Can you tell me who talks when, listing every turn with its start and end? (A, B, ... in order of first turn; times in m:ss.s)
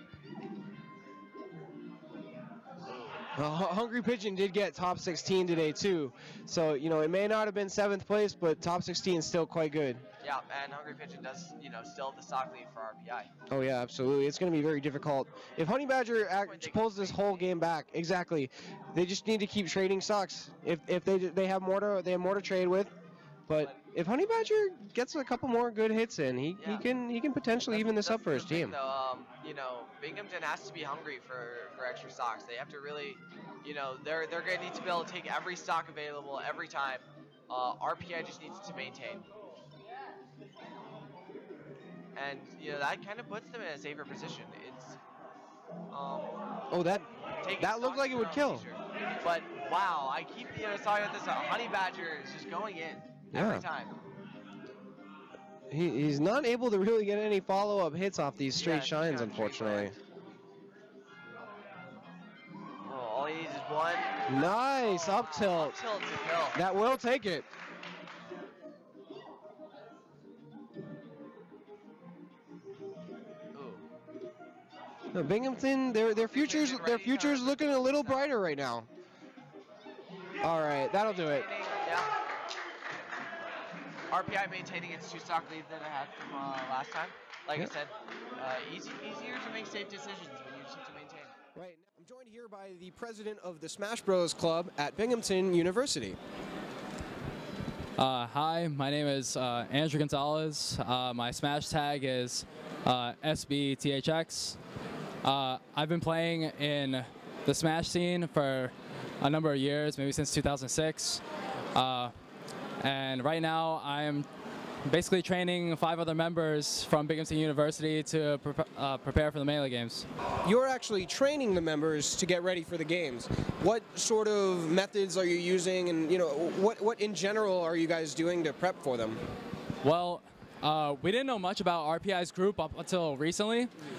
0:02.8-0:03.2 A
0:03.3-0:10.0 B
0:10.2-0:13.3 A
0:13.5-0:22.9 B
0:16.2-0:17.5 A
0:23.5-0:28.8 B
0:23.5-0:23.8 A
0:26.6-0:26.8 A
0:27.7-0:39.3 A
0:42.2-0:45.0 A
0:45.9-0:46.3 A
0:46.7-0:48.6 B
0:47.4-0:53.9 A
0:53.3-0:53.6 B
0:55.7-0:59.9 B
0:58.6-0:59.9 A
1:02.8-1:04.2 A
1:04.3-1:05.8 B
1:04.8-1:06.6 A
1:06.5-1:07.5 B
1:13.5-1:13.8 A
1:15.1-1:18.9 B
1:16.3-1:18.3 A
1:20.4-1:21.5 B
1:21.0-1:22.1 A
1:24.1-1:31.3 A
1:31.5-1:36.2 B
1:38.0-1:44.6 C
1:45.2-1:51.2 C
1:51.7-1:52.1 C
1:52.8-1:54.2 C
1:54.8-2:00.0 C
2:00.4-2:09.2 B
2:09.8-2:13.7 C